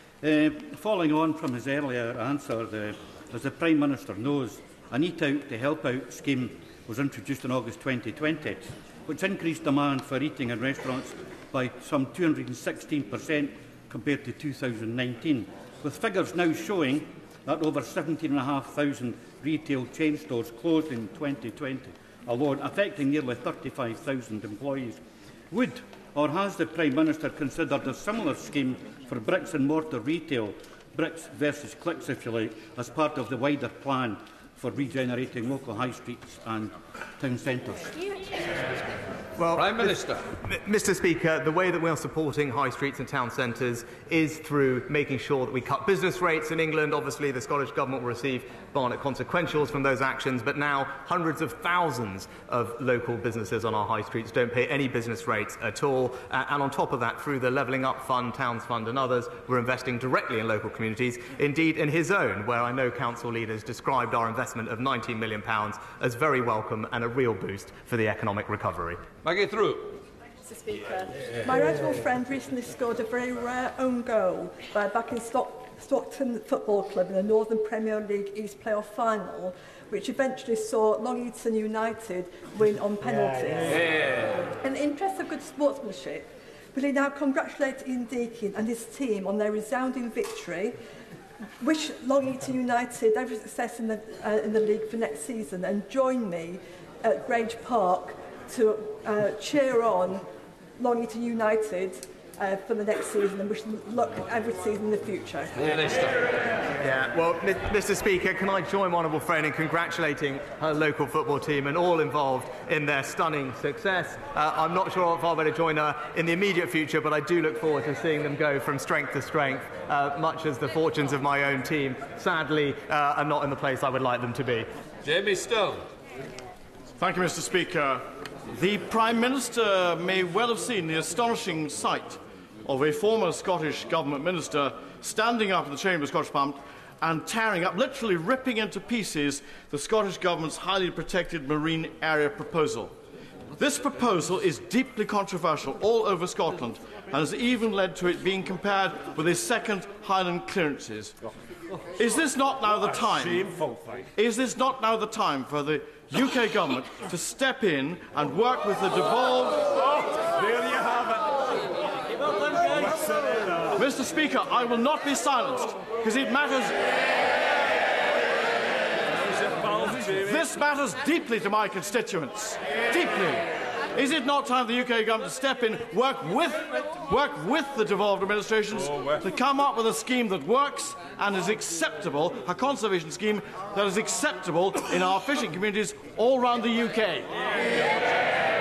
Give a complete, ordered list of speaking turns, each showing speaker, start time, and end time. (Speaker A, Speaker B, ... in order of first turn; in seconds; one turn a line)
Speaker A: 0.2-38.0
Speaker B: 39.4-69.0
Speaker C: 39.5-40.3
Speaker C: 69.2-70.0
Speaker D: 70.5-83.8
Speaker C: 83.7-84.5
Speaker D: 84.6-90.8
Speaker D: 91.6-100.3
Speaker D: 100.8-105.5
Speaker C: 105.5-106.3
Speaker B: 106.8-124.7
Speaker C: 125.0-125.9
Speaker E: 127.0-142.9
Speaker E: 143.6-151.2
Speaker E: 152.0-153.5
Speaker E: 154.2-160.0
Speaker E: 163.7-166.8
Speaker E: 169.4-187.6